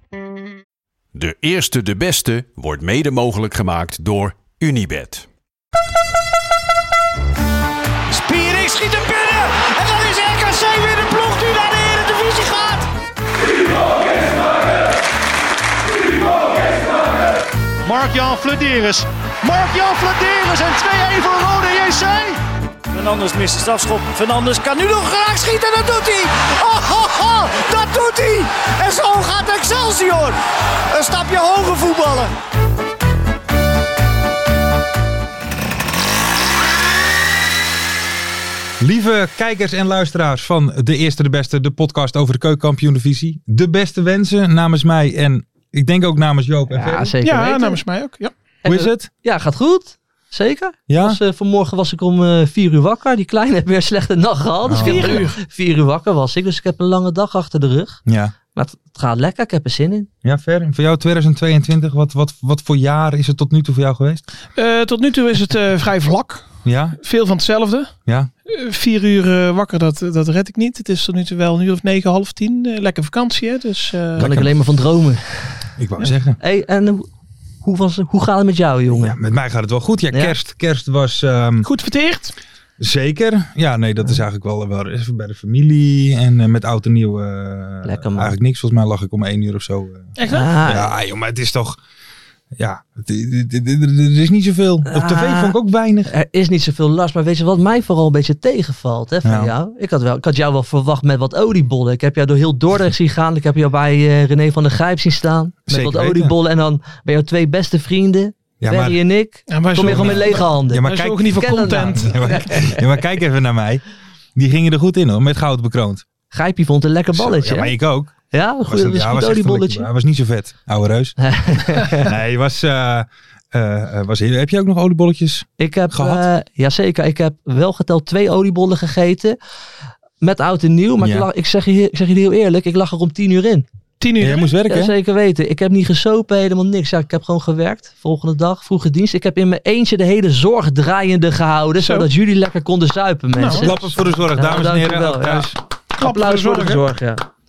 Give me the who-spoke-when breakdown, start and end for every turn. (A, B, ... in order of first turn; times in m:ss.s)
0:01.1-0:05.3 A
0:08.1-0:12.9 B
0:17.8-0:30.4 B
0:30.9-0:32.3 B
0:38.8-0:47.1 C
0:46.7-0:47.8 D
0:47.2-0:48.3 E
0:48.6-0:58.0 D
0:48.6-0:49.1 C
0:50.9-0:51.2 C
0:54.7-0:55.3 C
0:54.8-0:55.4 E
0:58.1-0:58.3 C
0:58.5-1:00.1 D
1:00.2-1:04.2 C
1:04.6-1:06.4 E
1:06.6-1:07.0 C
1:07.0-1:07.9 E
1:08.5-1:14.3 E
1:14.2-1:14.5 C
1:14.2-1:15.7 D
1:15.8-1:16.4 C
1:16.4-1:17.1 D
1:17.6-1:19.2 D
1:18.9-1:21.7 C
1:20.1-1:20.4 D
1:21.6-1:22.3 E
1:22.8-1:30.1 C
1:27.8-1:28.3 D
1:30.2-1:30.6 E
1:30.2-1:30.9 D
1:30.7-1:31.8 C
1:32.6-1:36.1 C
1:34.9-1:53.0 D
1:39.2-1:39.5 C
1:45.7-1:46.3 C
1:48.6-1:49.0 C
1:49.5-1:52.4 E
1:49.8-1:53.8 C
1:54.4-1:56.0 C
1:56.3-1:57.8 D
1:57.1-1:58.1 C
1:58.3-1:59.9 D
1:58.7-2:01.2 C
2:01.2-2:02.1 D
2:02.0-2:06.2 C
2:05.6-2:09.4 D
2:10.2-2:13.6 D
2:11.0-2:11.3 C
2:14.0-2:14.4 E
2:14.2-2:14.9 C
2:14.7-2:27.2 D
2:21.8-2:22.1 E
2:23.3-2:23.8 E
2:23.5-2:25.6 C
2:25.9-2:26.8 E